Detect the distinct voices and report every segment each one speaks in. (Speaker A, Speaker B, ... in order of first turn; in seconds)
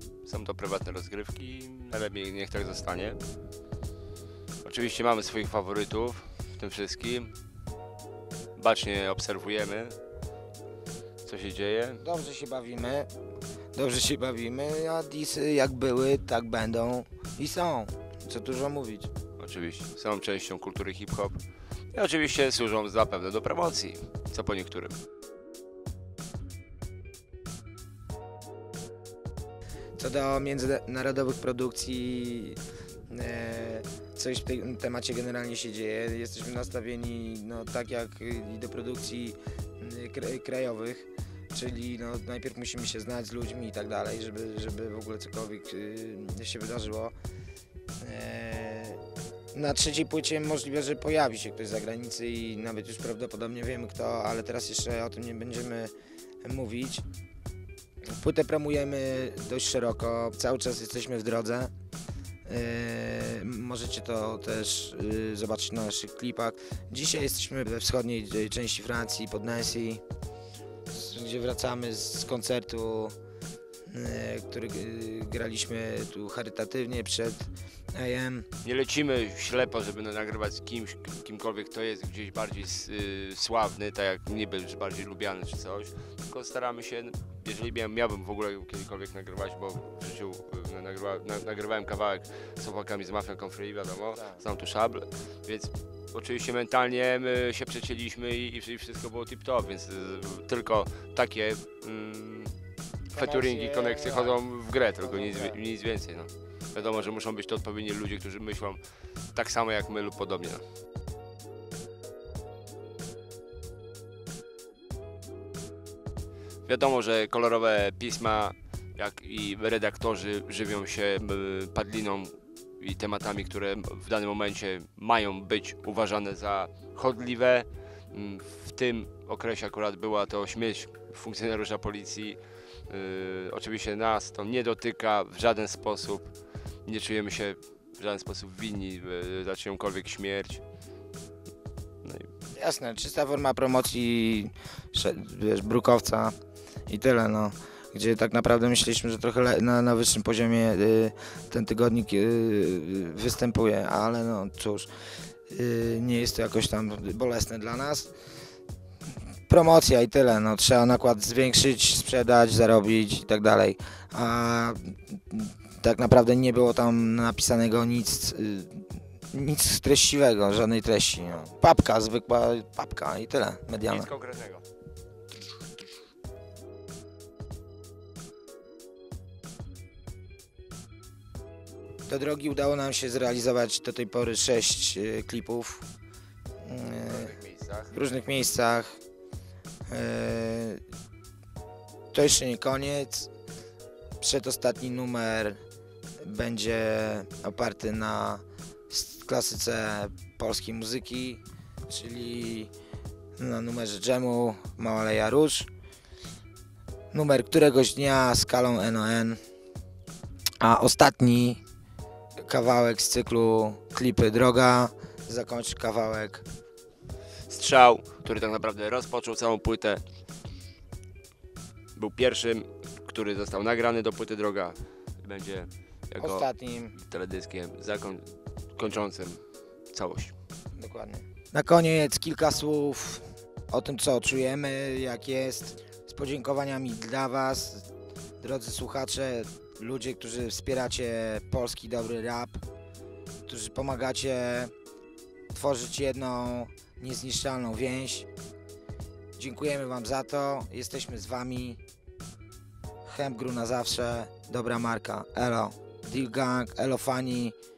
Speaker A: 0.2-3.2, 4.6-7.3, 8.6-10.0, 11.2-12.0, 19.4-25.0, 78.6-102.5, 103.1-108.8, 109.3-110.6, 116.7-140.6, 142.0-142.3, 173.8-174.7, 187.0-188.0, 217.5-220.0, 222.0-230.3
Speaker B: 12.0-13.1, 13.7-19.1, 30.0-47.1, 48.0-49.0, 49.5-55.9, 56.4-57.0, 58.2-61.7, 62.5-70.0, 70.9-73.2, 73.9-78.5, 94.1-94.4, 103.1-104.4, 105.0-105.6, 106.8-107.2, 142.6-146.3, 146.9-154.9, 155.5-158.1, 159.5-174.1, 182.1-185.9, 186.6-187.3, 187.9-189.0, 189.9-190.8, 192.1-193.3, 194.2-195.6, 196.2-202.7, 203.4-205.7, 207.1-209.4, 210.6-211.6, 212.4-216.4, 226.2-226.9, 230.8-237.9, 238.4-242.6, 243.5-244.7, 245.5-248.3, 249.4-251.8, 253.1-257.6